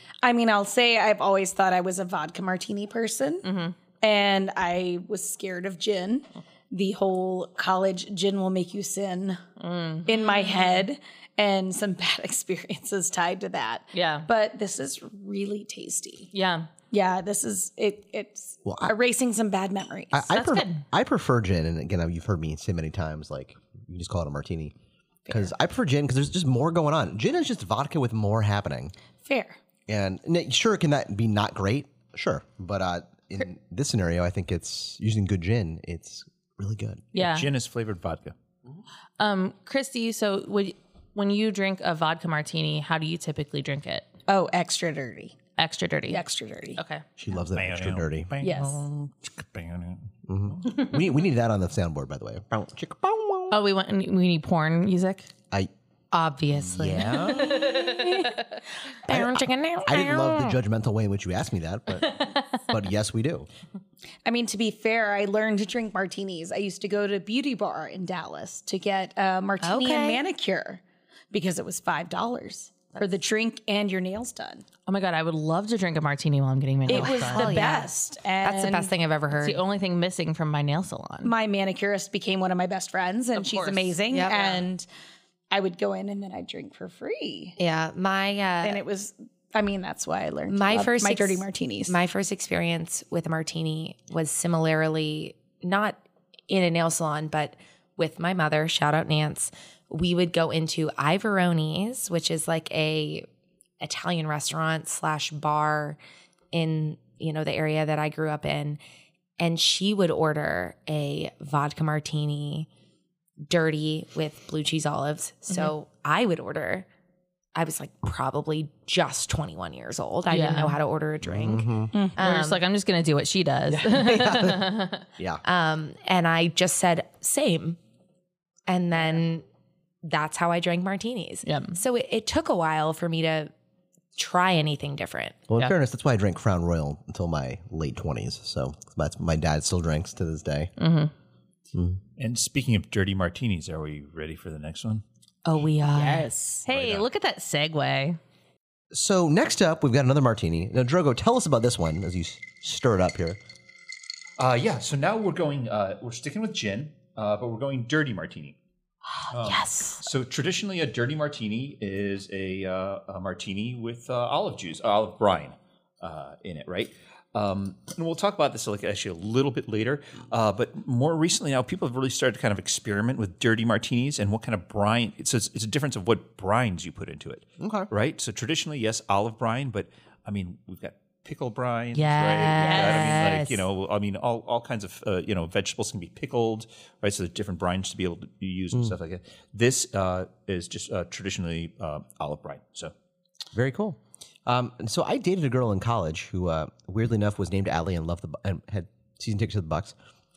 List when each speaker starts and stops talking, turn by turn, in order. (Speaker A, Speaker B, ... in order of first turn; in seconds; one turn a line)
Speaker A: 0.2-3.5
Speaker B: 3.4-3.8
Speaker A: 4.0-9.4
Speaker B: 9.6-10.7
Speaker A: 10.1-16.3
Speaker B: 13.9-14.3
Speaker B: 16.3-16.7
Speaker A: 16.9-20.3
Speaker C: 18.6-18.9
Speaker C: 20.1-24.7
Speaker B: 20.3-20.8
Speaker C: 25.3-28.9
Speaker A: 29.2-29.6
Speaker C: 29.9-37.1
Speaker B: 37.1-37.5
Speaker D: 37.1-38.3
Speaker B: 39.2-44.1
Speaker A: 44.3-45.4
Speaker B: 45.6-46.2
Speaker A: 46.1-46.8
Speaker B: 46.8-47.0
Speaker C: 47.2-48.3
Speaker D: 47.5-50.1
Speaker A: 48.4-48.8
Speaker C: 50.3-53.6
Speaker B: 53.5-55.3
Speaker E: 56.1-58.5
Speaker C: 56.6-57.8
Speaker E: 59.0-60.6
Speaker C: 59.1-63.5
Speaker A: 64.2-74.6
Speaker E: 69.6-70.2
Speaker B: 74.9-77.5
Speaker A: 76.9-78.9
Speaker E: 76.9-79.6
Speaker B: 79.3-81.3
Speaker A: 81.2-84.9
Speaker B: 83.4-84.6
Speaker E: 84.1-84.4
Speaker A: 85.5-87.6
Speaker E: 87.6-88.8
Speaker A: 88.6-92.0
Speaker E: 90.5-103.3
Speaker E: 103.8-106.0
Speaker E: 106.5-108.8
Speaker E: 109.4-112.7
Speaker E: 113.4-116.9
Speaker E: 117.5-122.6
Speaker B: 120.3-120.8
Speaker C: 121.2-121.9
Speaker B: 122.2-125.0
Speaker C: 123.7-125.4
Speaker E: 125.4-127.8
Speaker E: 128.7-129.4
Speaker E: 130.0-133.5
Speaker B: 131.4-131.8
Speaker E: 134.2-135.4
Speaker C: 135.5-140.7
Speaker B: 140.8-141.1
Speaker C: 141.8-142.0
Speaker D: 142.2-145.0
Speaker E: 145.4-146.5
Speaker A: 146.0-146.3
Speaker B: 146.6-148.2
Speaker D: 146.7-147.1
Speaker C: 148.9-153.4
Speaker D: 154.4-158.6
Speaker E: 159.2-160.1
Speaker D: 159.3-192.9
Speaker C: 177.6-177.9
Speaker E: 181.9-183.6
Speaker B: 182.6-183.0
Speaker C: 193.5-199.9